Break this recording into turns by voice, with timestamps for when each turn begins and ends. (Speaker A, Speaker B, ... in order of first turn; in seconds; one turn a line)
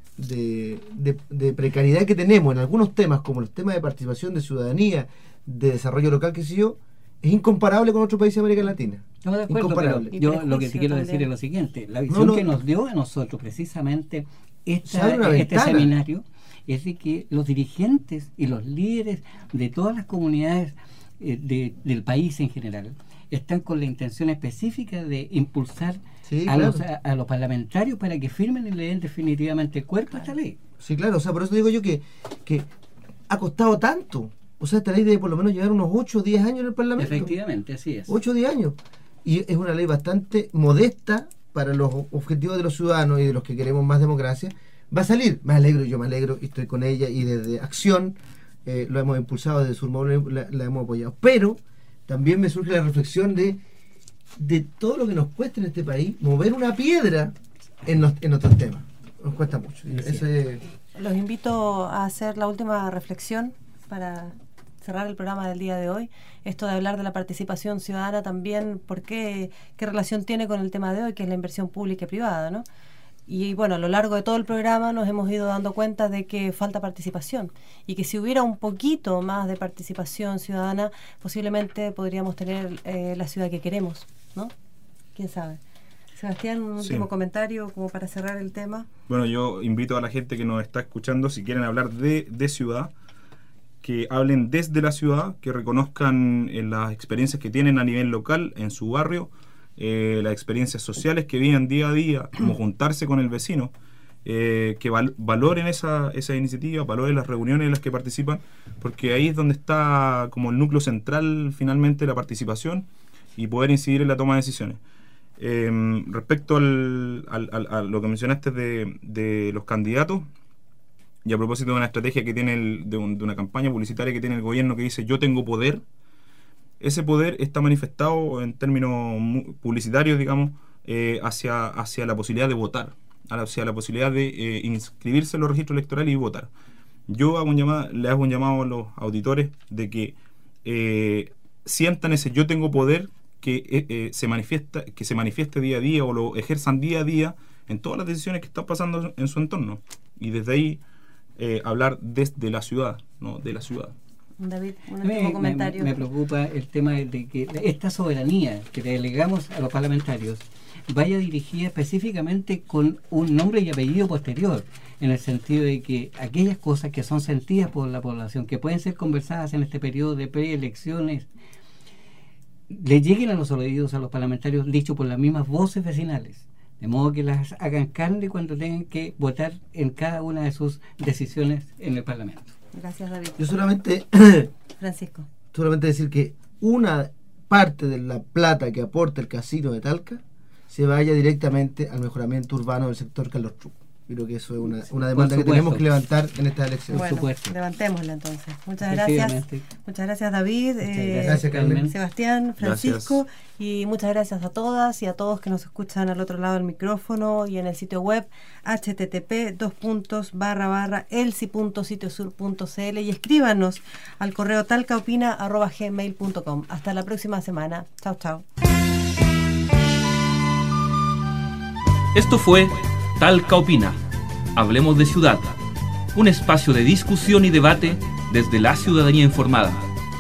Speaker A: 0.2-10.1
Speaker B: 9.2-30.6
Speaker C: 10.1-11.3
Speaker A: 12.1-12.5
Speaker A: 14.8-15.9
Speaker A: 26.3-26.9
Speaker A: 30.8-32.7
Speaker A: 33.3-37.3
Speaker B: 37.0-38.1
Speaker A: 38.1-53.6
Speaker A: 54.4-60.6
Speaker B: 59.9-60.2
Speaker C: 61.0-72.7
Speaker C: 73.3-84.5
Speaker C: 85.2-85.6
Speaker C: 86.2-88.9
Speaker D: 86.8-87.1
Speaker D: 89.1-92.9
Speaker D: 93.8-103.7
Speaker D: 104.2-114.8
Speaker D: 115.4-120.3
Speaker D: 121.2-125.8
Speaker D: 126.8-136.5
Speaker D: 137.1-150.8
Speaker D: 151.4-153.9
Speaker C: 154.4-156.0
Speaker B: 155.0-171.3
Speaker B: 172.7-182.5
Speaker C: 182.7-183.5
Speaker A: 183.4-184.5
Speaker C: 184.8-185.3
Speaker A: 185.5-197.1
Speaker B: 195.1-196.0
Speaker B: 196.9-197.6
Speaker C: 196.9-218.4
Speaker B: 198.8-199.7
Speaker B: 200.8-201.9
Speaker A: 201.2-201.9
Speaker D: 202.6-203.2
Speaker E: 222.1-224.0
Speaker E: 224.6-225.5
Speaker E: 226.1-229.8